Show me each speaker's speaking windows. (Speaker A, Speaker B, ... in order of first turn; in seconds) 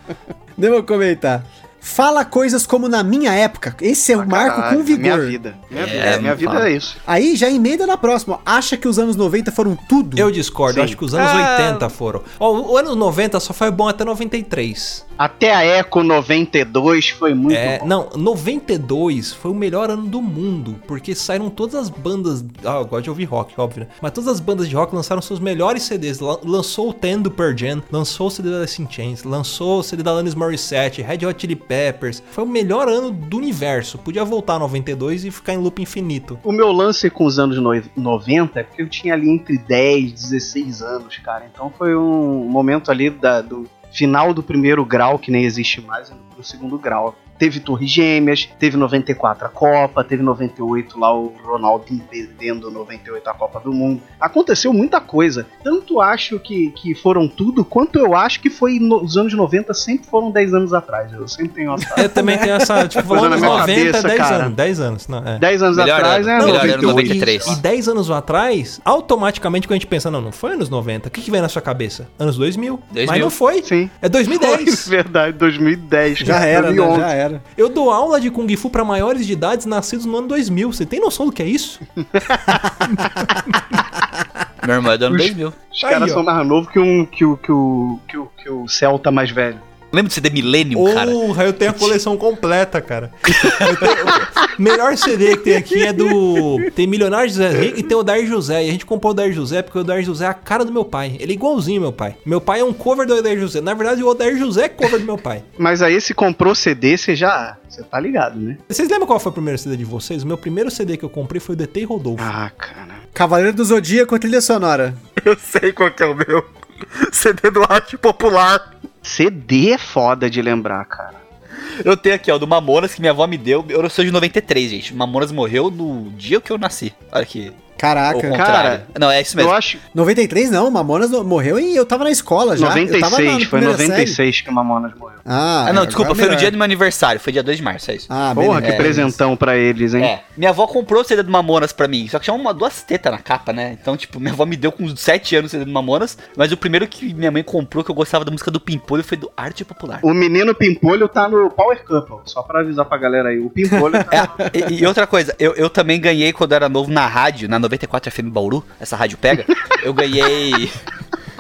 Speaker A: 0.6-5.4, 7.1-10.3, 61.9-63.3, 76.2-77.4, 113.2-115.0, 127.8-128.4, 129.9-134.2, 135.3-136.5, 138.1-139.2, 153.7-154.9
Speaker B: 4.2-7.0, 10.7-11.9, 15.2-17.8, 36.4-62.1, 63.1-64.5, 65.4-67.6, 73.6-77.1, 85.1-89.6, 105.6-108.6, 112.2-113.0, 119.0-121.2, 128.3-129.8, 132.6-135.2, 138.3-140.1, 150.0-154.4
Speaker C: 5.7-6.7, 63.4-63.7, 65.7-67.6, 72.9-73.3, 84.6-85.6, 89.9-92.0, 93.3-94.0, 115.2-118.7, 121.6-127.6, 128.1-129.6, 135.7-139.0, 140.0-150.1, 154.1-160.8
Speaker D: 10.2-15.0, 17.5-36.4, 62.0-65.5, 66.4-74.9, 77.6-81.8, 82.8-83.8, 85.8-86.2, 90.7-105.4, 108.7-112.3